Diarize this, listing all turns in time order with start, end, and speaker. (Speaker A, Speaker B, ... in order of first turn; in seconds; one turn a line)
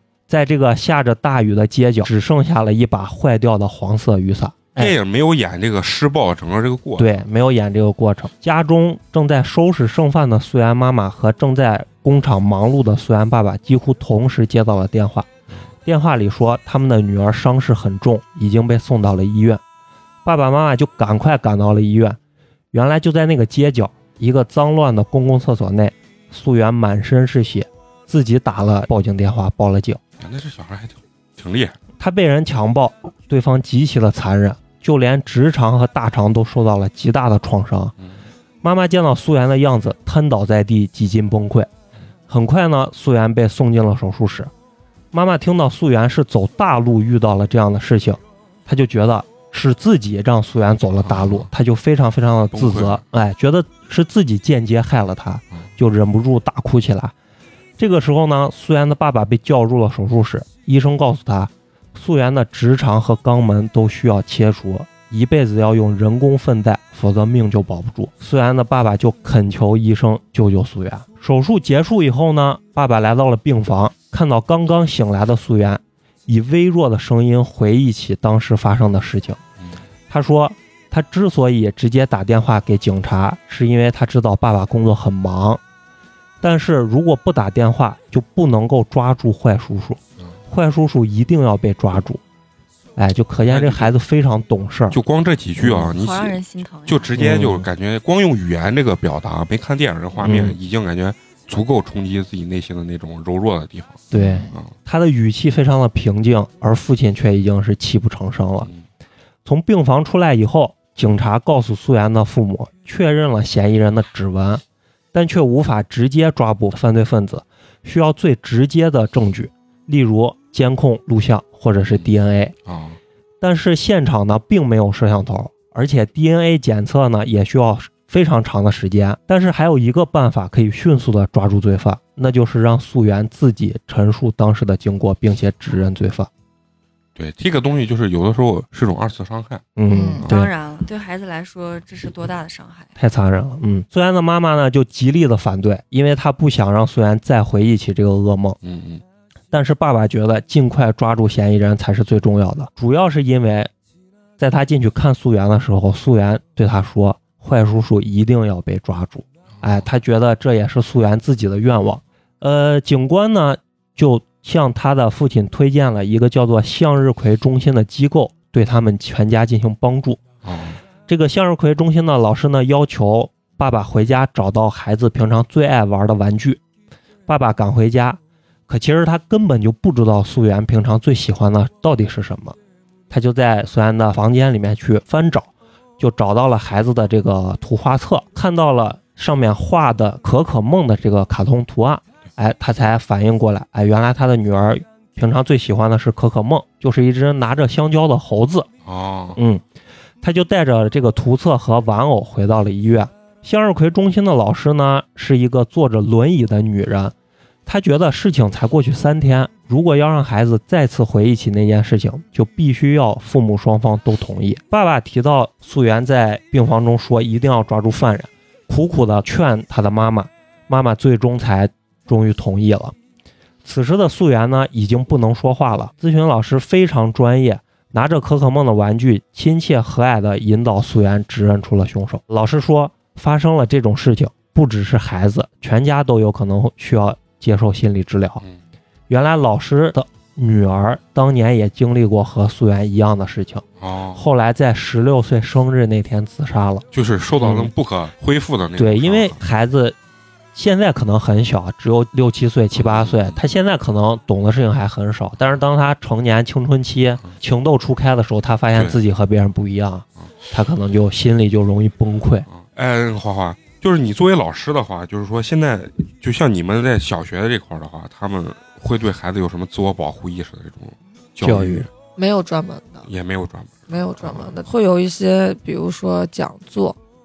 Speaker A: 0.3-4.9
Speaker B: 4.8-7.1
Speaker A: 7.0-15.3
Speaker A: 15.8-19.6
Speaker A: 20.2-22.2
Speaker A: 22.7-30.0
Speaker B: 30.2-31.7
Speaker A: 32.0-37.9
Speaker A: 38.6-41.7
Speaker A: 42.3-44.5
Speaker A: 45.1-57.1
Speaker B: 51.0-51.5
Speaker B: 52.5-53.0
Speaker A: 57.8-79.4
Speaker A: 80.1-85.6
Speaker A: 86.4-92.2
Speaker A: 93.0-95.0
Speaker B: 93.5-93.9
Speaker B: 94.9-104.7
Speaker A: 95.6-95.9
Speaker C: 95.9-97.2
Speaker A: 97.2-97.7
Speaker A: 100.2-100.6
Speaker A: 104.1-108.7
Speaker D: 104.1-104.5
Speaker A: 109.4-122.5
Speaker B: 122.7-123.0
Speaker A: 123.4-136.3
Speaker B: 137.2-139.7
Speaker A: 139.8-140.5
Speaker D: 139.9-140.2
Speaker C: 140.2-142.9
Speaker A: 142.9-148.6
Speaker B: 148.6-149.0
Speaker A: 149.5-153.7
Speaker A: 154.4-170.2
Speaker B: 170.4-170.8
Speaker A: 171.1-176.6
Speaker A: 177.3-182.6
Speaker A: 183.1-198.7
Speaker B: 198.8-199.4
Speaker A: 199.3-199.6
Speaker A: 200.2-207.1
Speaker A: 207.7-222.9
Speaker A: 223.6-238.4
Speaker A: 239.1-246.8
Speaker B: 243.8-244.2
Speaker B: 246.9-249.4
Speaker A: 247.4-247.7
Speaker A: 248.8-250.0
Speaker A: 250.5-262.5
Speaker B: 252.8-253.3
Speaker B: 262.5-271.9
Speaker A: 271.4-271.9
Speaker D: 272.1-273.1
Speaker B: 273.1-274.6
Speaker D: 273.9-277.0